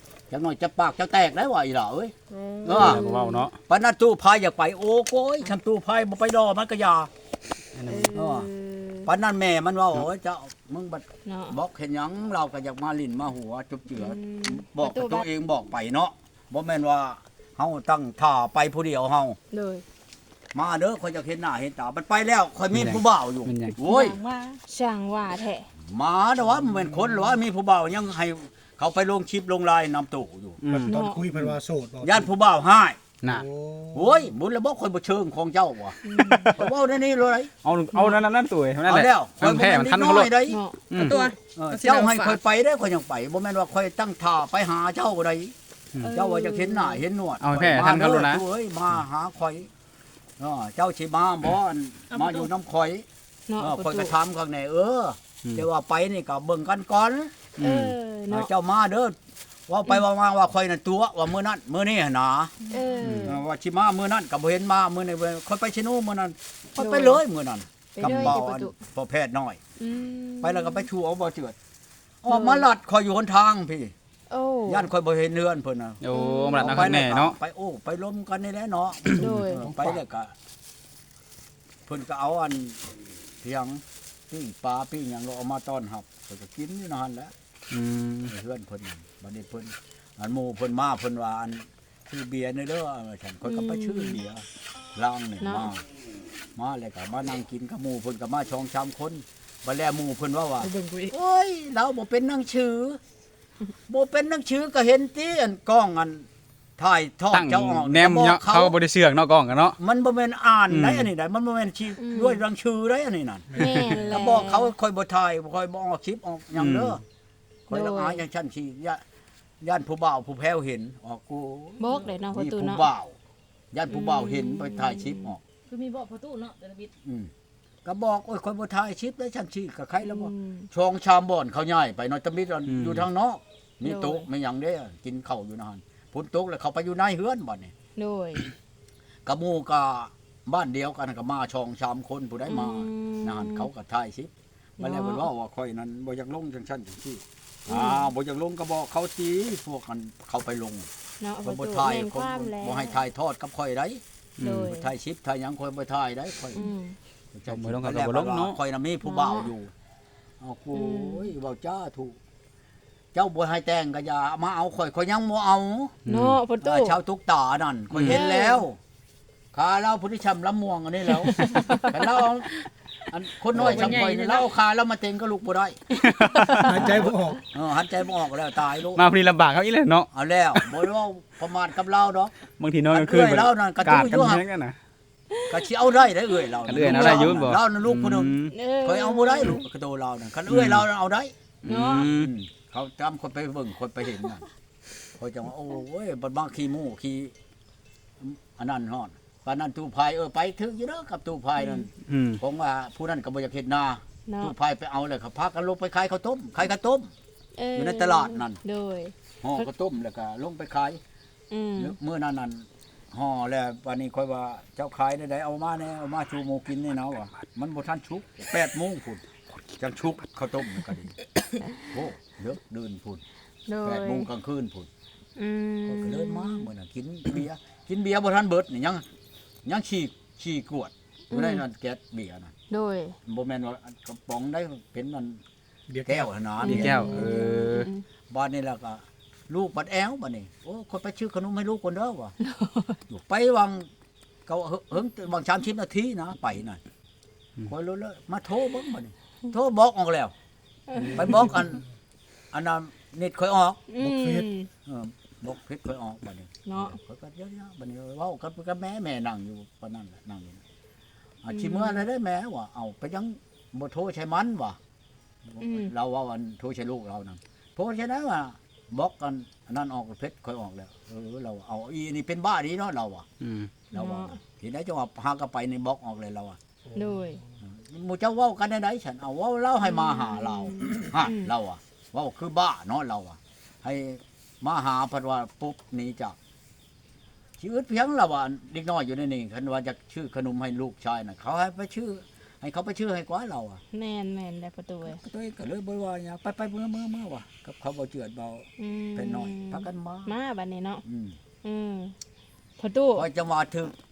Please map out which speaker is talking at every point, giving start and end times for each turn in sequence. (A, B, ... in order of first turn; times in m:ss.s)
0:00.3-0:02.1 A
0:02.3-0:02.9 B
0:02.6-0:03.0 A
0:02.7-0:03.6 C
0:02.7-0:03.5 D
0:03.7-0:07.1 A
0:07.8-0:08.2 C
0:07.9-0:09.1 D
0:08.1-0:08.5 A
0:09.0-0:19.4 A
0:11.3-0:11.6 D
0:13.9-0:15.3 D
0:19.5-0:19.8 D
0:20.5-0:24.2 A
0:22.7-0:23.8 C
0:23.8-0:24.6 B
0:24.6-0:25.7 D
0:25.9-0:30.6 A
0:30.6-0:31.0 C
0:30.7-0:32.3 E
0:30.9-0:31.3 D
0:32.0-0:33.0 A
0:33.4-0:34.0 E
0:33.9-0:36.0 A
0:36.1-0:36.6 D
0:36.5-0:37.5 A
0:37.6-0:40.3 C
0:38.9-0:40.6 A
0:40.4-0:40.9 D
0:40.9-0:41.2 C
0:41.0-0:42.4 B
0:41.4-0:45.5 A
0:46.0-0:47.0 D
0:46.1-0:49.7 A
0:47.4-0:48.4 C
0:50.4-0:53.0 A
0:52.1-0:52.5 B
0:53.5-0:54.1 D
0:53.6-0:57.4 A
0:57.6-0:57.9 C
0:57.6-0:58.5 D
0:58.3-0:59.2 A
0:59.7-1:02.5 A
1:02.6-1:02.9 B
1:02.7-1:03.4 D
1:03.0-1:03.4 C
1:03.2-1:09.6 A
1:06.8-1:07.2 D
1:07.9-1:08.7 D
1:08.0-1:08.4 C
1:09.8-1:10.8 D
1:10.4-1:11.6 A
1:12.2-1:13.9 A
1:12.3-1:12.7 D
1:14.3-1:14.9 D
1:14.7-1:16.0 A
1:16.0-1:17.4 C
1:16.1-1:16.8 D
1:16.6-1:20.3 A
1:19.2-1:19.7 D
1:21.9-1:22.8 A
1:23.4-1:27.3 A
1:27.7-1:28.3 C
1:28.3-1:35.8 A
1:33.4-1:34.2 D
1:35.4-1:35.7 D
1:36.6-1:43.0 A
1:40.6-1:41.1 B
1:43.9-1:46.3 A
1:46.8-1:48.8 A
1:47.3-1:49.8 C
1:49.8-1:57.0 A
1:50.7-1:51.1 C
1:52.0-1:52.4 D
1:53.5-1:54.7 D
1:53.6-1:54.0 C
1:56.6-1:56.9 C
1:57.7-1:59.0 A
1:57.7-1:58.2 D
1:59.6-2:03.2 A
2:01.8-2:02.9 D
2:03.7-2:05.4 A
2:03.9-2:05.3 D
2:05.7-2:06.9 B
2:07.0-2:07.3 A
2:07.8-2:17.7 A
2:10.0-2:10.7 D
2:12.7-2:13.1 C
2:13.8-2:14.3 D
2:18.0-2:18.5 D
2:19.2-2:30.9 A
2:22.4-2:23.7 D
2:24.8-2:25.3 D
2:27.7-2:28.1 D
2:31.2-2:33.0 D
2:31.4-2:34.0 A
2:34.4-2:34.7 C
2:34.4-2:34.9 D
2:34.6-2:36.6 A
2:36.5-2:37.0 D
2:37.3-2:39.7 A
2:37.5-2:38.6 C
2:39.0-2:39.5 D
2:40.4-2:42.2 A
2:40.7-2:41.3 D
2:43.1-2:46.0 A
2:46.1-2:46.4 C
2:46.1-2:47.0 D
2:46.6-2:48.8 A
2:47.9-2:48.2 C
2:48.1-2:48.6 D
2:49.5-2:52.5 A
2:51.1-2:52.2 D
2:53.1-2:55.8 A
2:53.5-2:54.5 B
2:55.9-2:57.1 D
2:56.0-2:57.0 C
2:56.6-2:57.4 E
2:56.7-2:59.0 A
2:59.0-3:00.6 C
3:00.1-3:02.4 A
3:02.6-3:04.8 C
3:02.9-3:04.4 A
3:05.5-3:11.3 A
3:06.6-3:08.5 C
3:06.8-3:07.4 D
3:08.5-3:09.6 D
3:10.5-3:10.8 C
3:11.6-3:12.3 C
3:11.7-3:12.1 D
3:12.1-3:14.4 A
3:15.2-3:17.3 A
3:18.2-3:21.9 A
3:21.6-3:21.8 D
3:22.0-3:22.4 C
3:22.4-3:27.1 A
3:24.3-3:24.5 D
3:27.6-3:29.7 D
3:27.8-3:28.6 A
3:29.4-3:31.0 A
3:31.5-3:32.0 D
3:31.8-3:39.2 A
3:39.8-3:41.1 A
3:41.9-3:43.2 A
3:43.7-3:44.3 D
3:43.8-3:44.9 A
3:45.4-3:46.7 D
3:45.8-3:49.0 A
3:49.6-3:52.5 A
3:51.3-3:51.6 D
3:52.7-3:53.2 D
3:53.3-3:55.4 A
3:55.9-3:56.3 E
3:56.0-3:57.0 A
3:56.6-3:57.9 C
3:56.6-3:58.0 D
3:58.3-4:02.3 A
4:02.4-4:03.0 D
4:03.1-4:03.9 A
4:04.5-4:06.8 A
4:07.7-4:10.3 A
4:10.9-4:11.6 D
4:11.1-4:11.8 A
4:12.5-4:13.8 A
4:13.9-4:14.7 D
4:14.0-4:14.5 E
4:14.9-4:20.6 A
4:16.7-4:17.0 D
4:21.4-4:24.8 A
4:21.5-4:22.0 D
4:25.5-4:33.2 A
4:25.6-4:25.9 D
4:33.4-4:33.8 C
4:33.9-4:34.4 D
4:33.9-4:36.6 A
4:36.9-4:37.4 D
4:37.7-4:46.4 A
4:39.8-4:41.5 D
4:47.6-4:53.8 A
4:53.9-4:55.2 D
4:55.1-5:00.4 A
4:58.8-5:01.0 D
5:01.0-5:01.4 A
5:01.6-5:02.1 D
5:02.8-5:03.3 D
5:03.2-5:03.9 A